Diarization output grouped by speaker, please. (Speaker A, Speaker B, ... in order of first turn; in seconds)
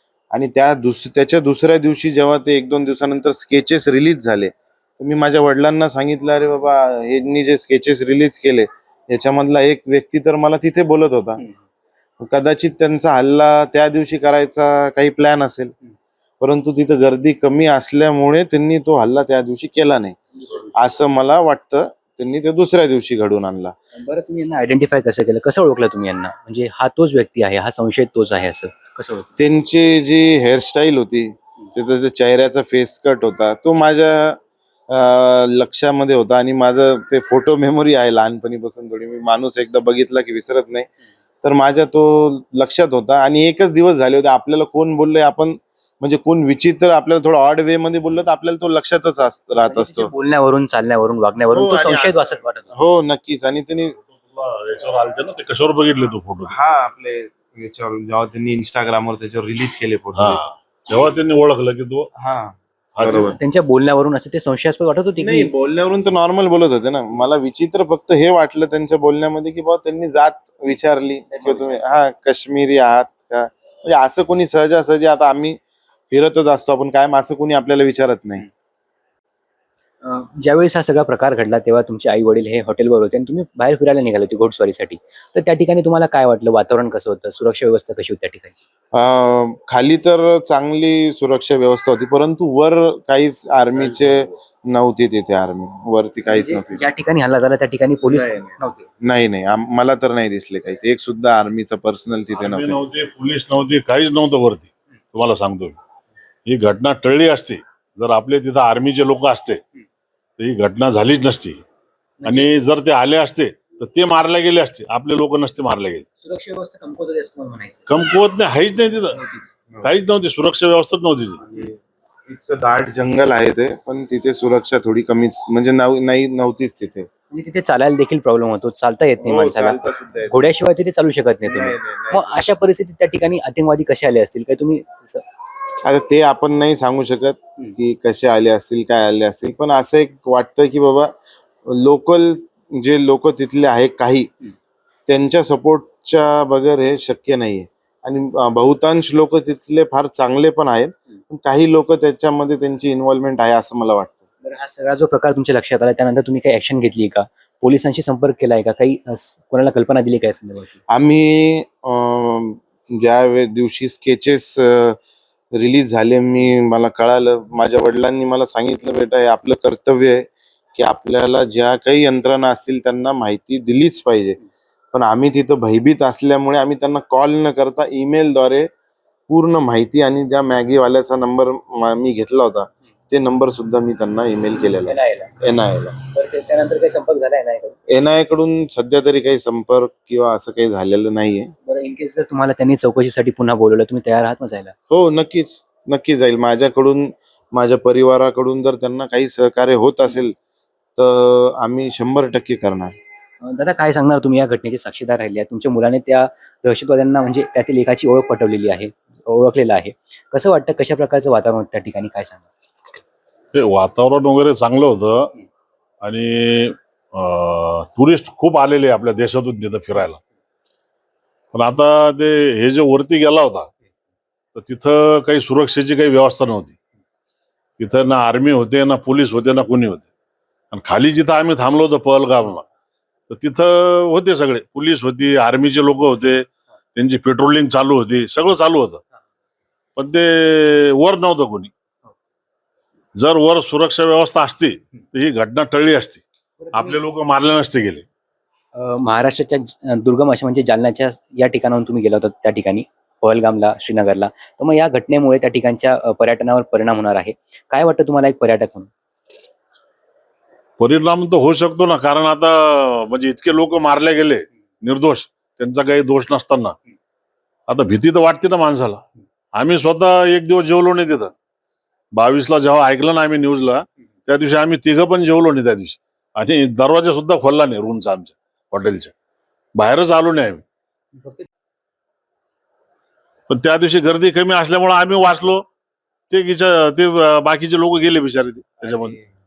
Speaker A: 0.3-11.4, 12.2-15.7, 16.4-20.2, 20.7-23.7, 29.4-40.9, 41.4-50.1, 51.5-54.0, 56.5-60.4, 62.2-63.4, 65.2-75.6, 76.1-78.5, 88.9-96.8, 98.1-102.8, 121.4-127.1, 129.2-130.5, 131.4-132.4, 135.8-141.1, 141.7-144.3, 145.1-154.2, 160.9-165.0, 165.5-174.4, 174.9-178.7, 179.3-186.0, 187.9-191.5, 194.9-200.3, 201.0-202.9
Speaker B: 23.9-29.3, 49.6-52.7, 63.3-65.5, 71.3-71.9, 80.0-88.6, 96.3-98.8, 112.2-112.5, 116.2-117.9, 119.1-119.5, 127.3-135.2, 154.4-160.8, 184.8-185.3, 186.1-187.8, 191.7-194.7, 203.4-212.5, 246.6-247.0, 248.7-258.9, 281.2-281.5
Speaker C: 54.1-56.5, 60.1-62.1, 63.0-63.4, 93.8-94.3, 102.3-105.8, 106.5-109.6, 110.4-111.6, 112.2-116.0, 117.9-119.2, 119.8-121.4, 213.5-215.3, 216.0-220.2, 221.5-223.7, 224.5-226.8, 227.8-230.1, 230.7-232.7, 233.3-239.0, 239.9-241.7, 243.2-246.2, 246.7-248.0, 260.8-266.7, 267.7-271.3, 272.1-279.1, 279.7-280.6, 283.5-285.6, 286.3-289.1